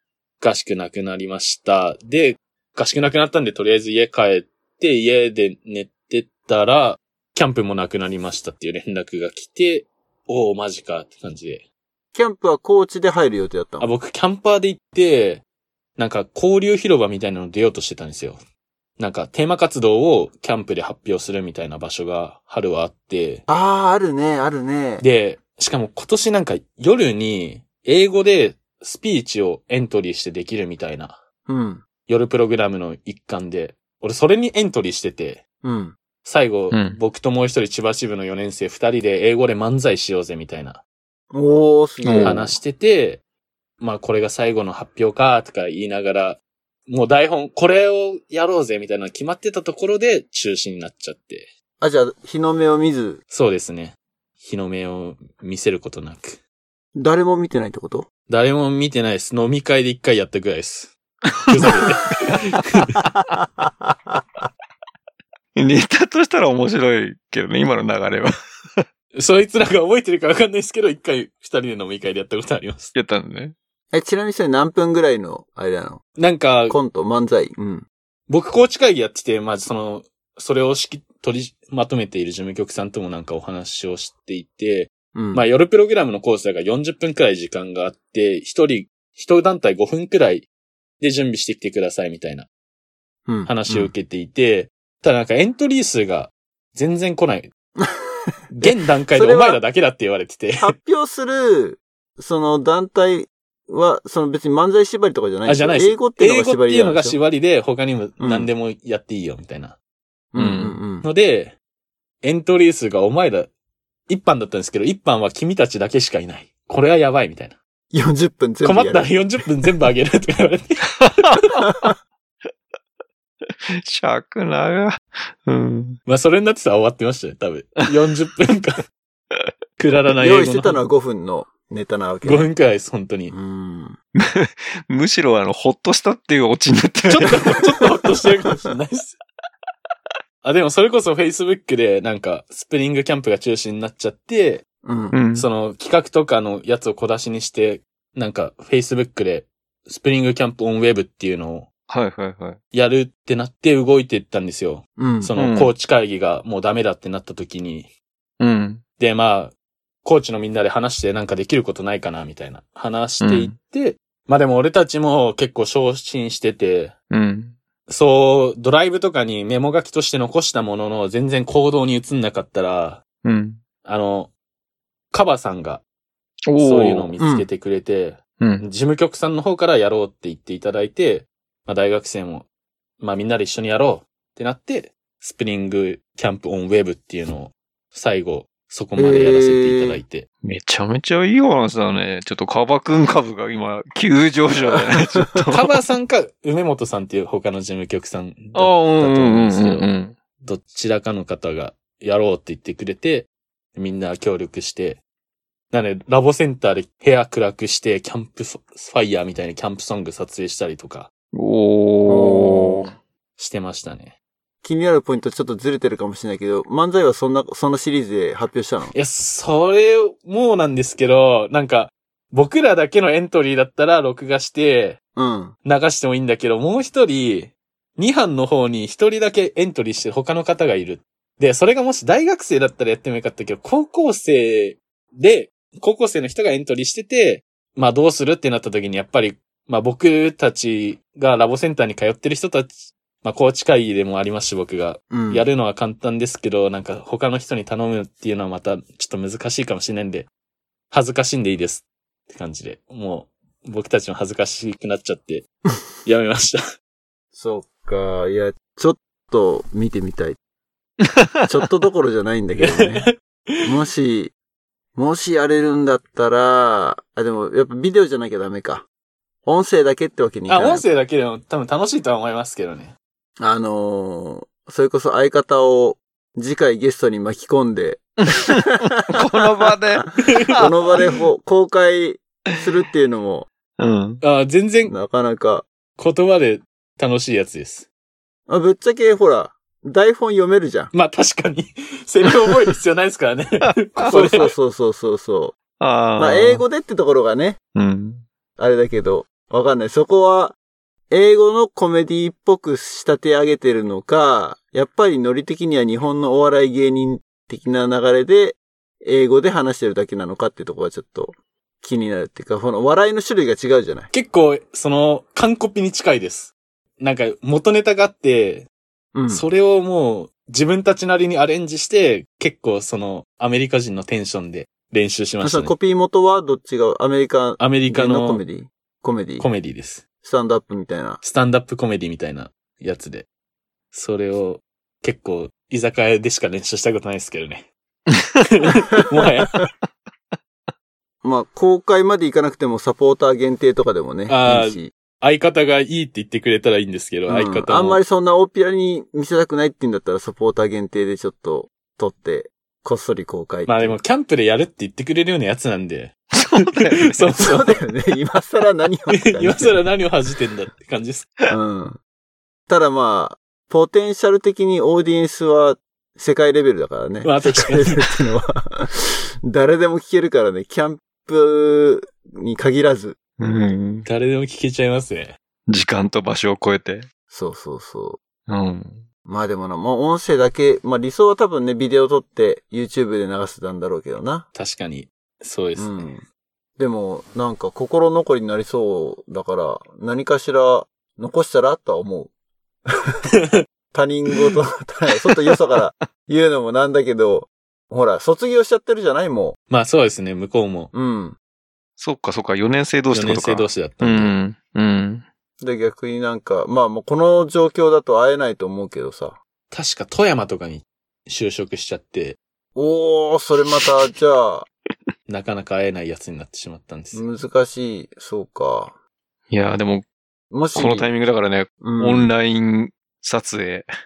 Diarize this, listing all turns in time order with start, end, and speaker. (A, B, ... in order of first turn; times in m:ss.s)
0:00.4-0:11.6 A
0:12.1-0:13.9 B
0:13.8-0:15.4 A
0:16.0-0:18.4 A
0:19.0-0:23.4 A
0:23.5-0:25.0 B
0:25.0-0:31.2 A
0:31.5-0:31.8 B
0:32.1-0:35.4 A
0:35.6-0:36.0 B
0:36.2-0:40.8 A
0:36.7-0:37.0 C
0:41.3-0:42.5 B
0:42.0-0:42.5 C
0:42.2-0:43.2 A
0:43.8-0:51.5 A
0:51.8-0:53.2 B
0:53.3-0:56.4 A
0:57.0-0:58.0 B
0:58.3-1:00.9 A
1:01.4-1:01.9 C
1:01.5-1:03.0 A
1:03.1-1:04.2 B
1:05.5-1:08.8 C
1:09.1-1:12.9 A
1:12.9-1:13.5 C
1:13.9-1:16.0 B
1:16.2-1:16.8 A
1:16.7-1:17.9 B
1:18.3-1:30.5 A
1:25.1-1:25.4 B
1:31.0-1:32.5 A
1:33.3-1:33.9 B
1:33.4-1:37.5 A
1:38.5-1:40.7 A
1:38.6-1:39.6 B
1:40.6-1:47.2 B
1:45.4-1:49.8 A
1:48.2-1:48.5 B
1:50.3-1:51.0 B
1:50.4-1:50.8 C
1:51.0-1:51.6 A
1:52.2-1:53.5 A
1:54.1-1:57.6 A
1:57.9-1:59.2 B
1:58.6-2:01.5 A
2:01.1-2:01.9 C
2:01.6-2:01.9 B
2:03.5-2:06.0 C
2:06.1-2:08.8 A
2:09.8-2:10.8 A
2:10.2-2:12.5 B
2:12.2-2:13.3 A
2:13.3-2:14.0 B
2:14.2-2:17.4 C
2:17.1-2:19.2 A
2:20.4-2:24.6 A
2:24.8-2:25.2 B
2:25.1-2:25.5 C
2:25.3-2:31.7 A
2:31.9-2:32.6 C
2:32.7-2:37.9 A
2:35.0-2:35.3 B
2:35.4-2:35.7 C
2:38.4-2:38.8 C
2:39.0-2:46.9 A
2:43.2-2:43.5 C
2:47.1-2:47.6 C
2:47.9-2:53.0 A
2:53.2-2:53.6 C
2:53.8-2:54.3 A
2:55.1-2:55.8 A
2:56.5-2:57.2 C
2:56.6-3:02.4 A
2:57.2-2:57.5 B
2:58.4-2:58.7 C
3:03.0-3:10.3 A
3:09.0-3:10.0 B
3:10.4-3:15.7 C
3:14.6-3:15.5 B
3:15.5-3:19.9 A
3:18.5-3:20.2 C
3:20.4-3:25.0 A
3:25.7-3:31.1 A
3:31.3-3:32.9 C
3:32.0-3:32.9 B
3:33.4-3:34.2 A
3:34.6-3:38.9 B
3:38.9-3:45.0 A
3:45.2-3:45.5 B
3:45.6-4:10.3 A
4:05.1-4:05.5 B
4:10.9-4:15.5 A
4:16.0-4:16.6 A
4:17.3-4:20.4 B
4:21.0-4:21.5 C
4:21.4-4:23.1 B
4:22.6-4:23.6 A
4:23.6-4:24.3 B
4:24.9-4:28.8 B
4:29.4-4:30.8 B
4:30.5-4:32.9 A
4:33.4-4:39.4 B
4:38.4-4:40.7 C
4:39.9-4:43.5 B
4:40.2-4:40.7 A
4:43.8-4:44.2 C
4:44.2-4:44.9 A
4:44.9-4:45.6 B
4:46.0-4:47.9 A
4:48.5-4:50.9 B
4:50.9-4:54.5 A
4:53.6-4:54.5 C
4:54.0-4:55.6 B
4:55.8-4:56.6 C
4:56.2-4:57.6 B
4:57.7-4:58.2 C
4:58.6-5:00.6 B
5:01.1-5:14.1 B
5:14.1-5:18.7 A
5:19.1-5:19.5 B
5:19.3-5:25.7 A
5:25.4-5:29.5 B
5:27.6-5:28.4 A
5:29.4-5:30.0 A
5:30.2-5:31.2 B
5:31.2-5:33.3 A
5:33.9-5:37.7 A
5:38.1-5:38.4 C
5:38.4-5:39.6 A
5:39.2-5:39.7 B
5:41.2-5:44.9 B
5:44.3-5:48.0 A
5:47.3-5:54.0 B
5:53.6-5:57.8 A
5:56.3-5:57.3 C
5:57.4-5:59.8 B
5:59.1-6:01.3 A
6:01.5-6:02.0 B
6:02.7-6:13.2 B
6:07.2-6:08.0 A
6:13.4-6:14.0 C
6:14.0-6:15.4 A
6:15.7-6:17.1 C
6:17.3-6:18.2 B
6:18.5-6:19.0 C
6:19.2-6:24.4 B
6:24.5-6:26.1 A
6:25.8-6:26.2 B
6:26.8-6:32.3 B
6:33.3-6:33.6 A
6:33.9-6:39.6 B
6:35.6-6:35.9 C
6:39.7-6:40.9 A
6:40.9-6:41.4 B
6:42.0-6:45.2 C
6:43.1-6:44.3 A
6:45.6-6:49.4 B
6:49.7-6:52.4 A
6:52.7-6:54.7 B
6:55.3-6:57.2 A
6:57.1-6:59.0 B
6:59.5-7:00.0 C
7:00.5-7:01.1 B
7:00.7-7:03.9 C
7:01.8-7:02.3 B